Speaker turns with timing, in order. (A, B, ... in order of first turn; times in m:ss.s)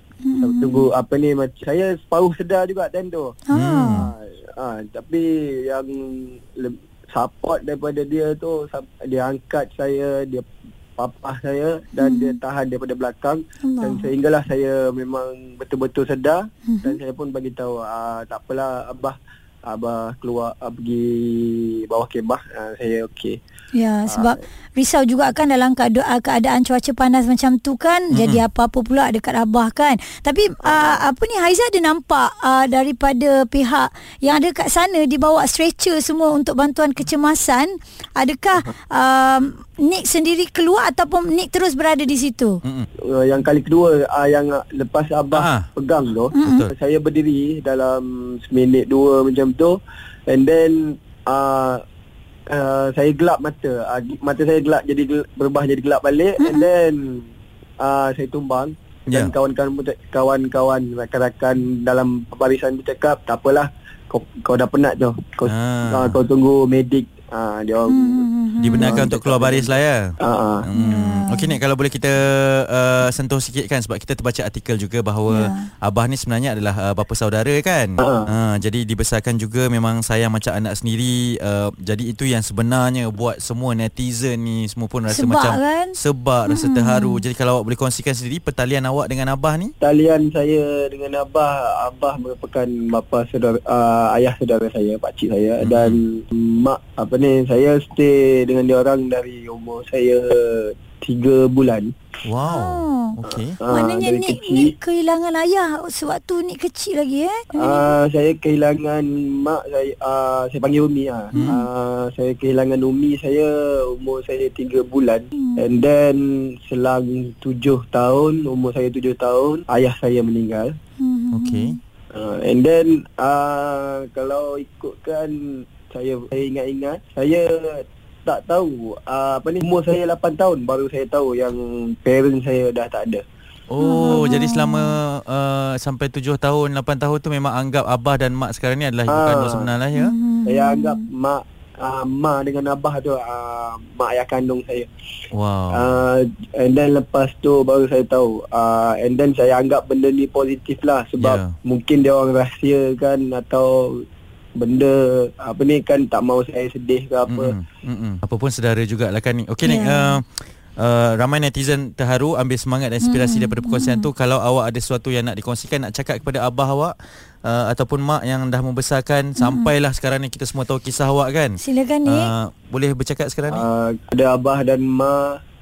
0:00.2-0:00.9 A
0:00.4-0:03.4 B
0:03.5-0:04.1 A
0:03.5-0:04.1 C
0:04.0-0:10.5 B
0:11.0-0:23.4 B
0:12.0-0:12.4 A
0:13.6-0:14.1 A
0:16.7-0:17.0 A
0:23.7-0:42.6 A
0:24.1-0:24.4 B
0:28.1-0:28.4 C
0:30.6-0:31.0 B
0:43.1-0:51.8 B
0:45.4-0:45.7 C
0:46.3-0:46.7 A
0:46.4-0:46.7 C
0:52.5-0:57.2 B
0:56.4-0:56.7 A
0:57.8-1:08.3 B
1:05.4-1:06.2 C
1:07.9-1:09.0 A
1:08.6-1:10.0 C
1:08.8-1:10.6 B
1:10.6-1:29.7 C
1:10.8-1:11.6 A
1:15.3-1:15.7 A
1:18.0-1:18.3 B
1:25.1-1:26.0 A
1:26.5-1:27.2 A
1:29.8-1:41.9 B
1:35.6-1:36.0 C
1:42.2-1:43.6 C
1:42.5-1:43.2 A
1:43.6-1:44.7 B
1:43.7-1:47.9 A
1:47.6-2:00.8 B
1:51.3-1:51.6 C
1:55.4-1:55.7 A
2:01.0-2:01.8 A
2:01.3-2:01.8 C
2:02.1-2:13.2 B
2:13.7-2:20.1 C
2:13.8-2:14.9 A
2:19.1-2:19.7 B
2:20.0-2:21.0 A
2:20.5-2:24.9 B
2:25.3-2:26.0 C
2:25.7-2:34.0 B
2:31.2-2:31.5 C
2:34.6-2:37.5 B
2:37.3-2:46.9 C
2:39.6-2:40.2 A
2:43.0-2:44.1 A
2:47.4-2:51.5 C
2:49.4-2:49.7 A
2:51.6-2:52.3 A
2:52.1-2:53.6 C
2:53.5-2:55.4 B